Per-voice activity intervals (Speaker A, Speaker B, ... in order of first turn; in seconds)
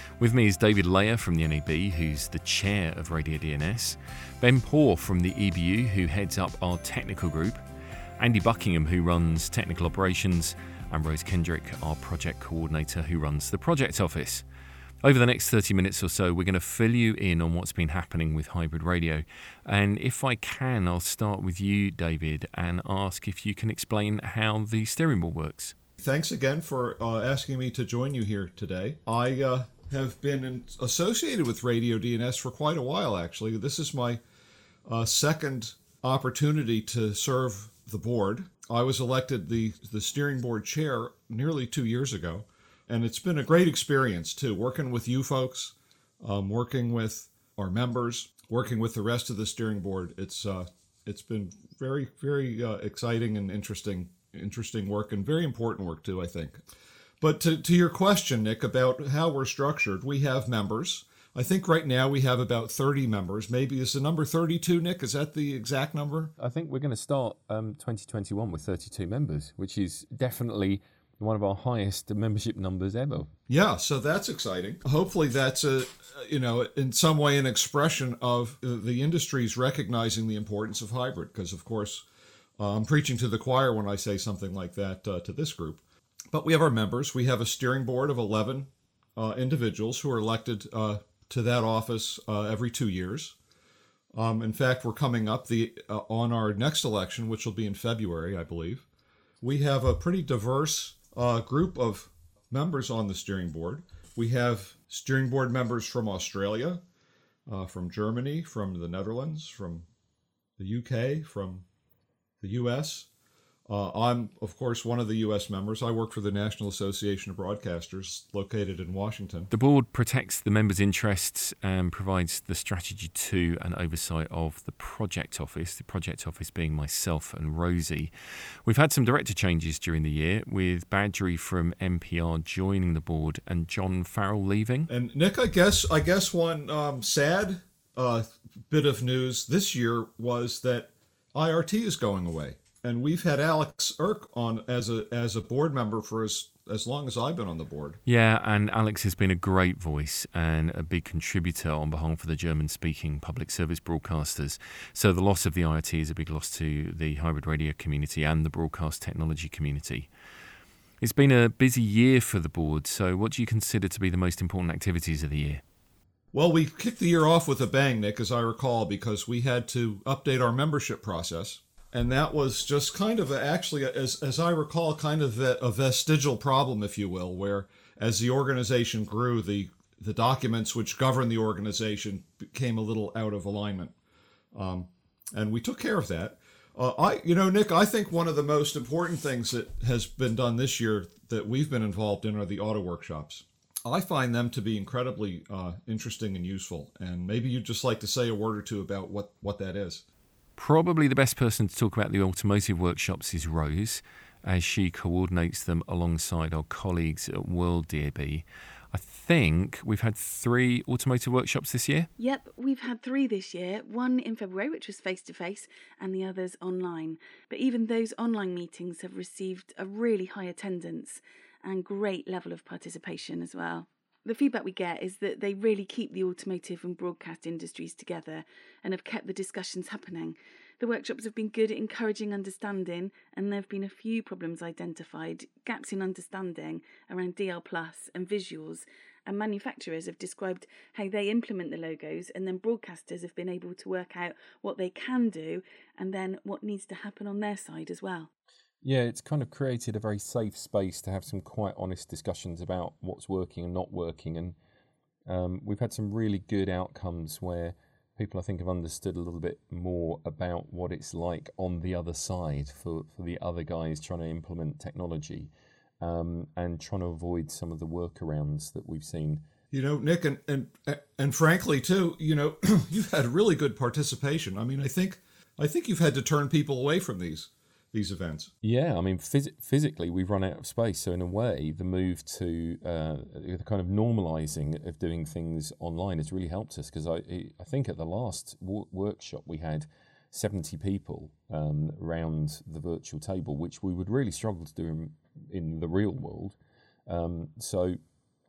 Speaker A: 0.2-7.6, 8.2-14.4, 15.0-25.8, 66.4-73.3, 119.5-128.1, 128.6-134.9, 148.1-160.1, 161.0-165.6, 200.6-212.1, 248.8-254.6, 255.3-269.4, 278.6-298.0
Speaker B: 26.0-34.2, 34.8-56.6, 57.2-66.3, 73.5-82.0, 82.6-93.3, 94.1-98.8, 99.4-106.8, 107.5-109.8, 110.6-111.6, 112.4-113.1, 113.7-119.5, 134.9-148.0, 166.3-183.9, 184.5-200.0, 269.7-278.5
Speaker C: 212.2-248.3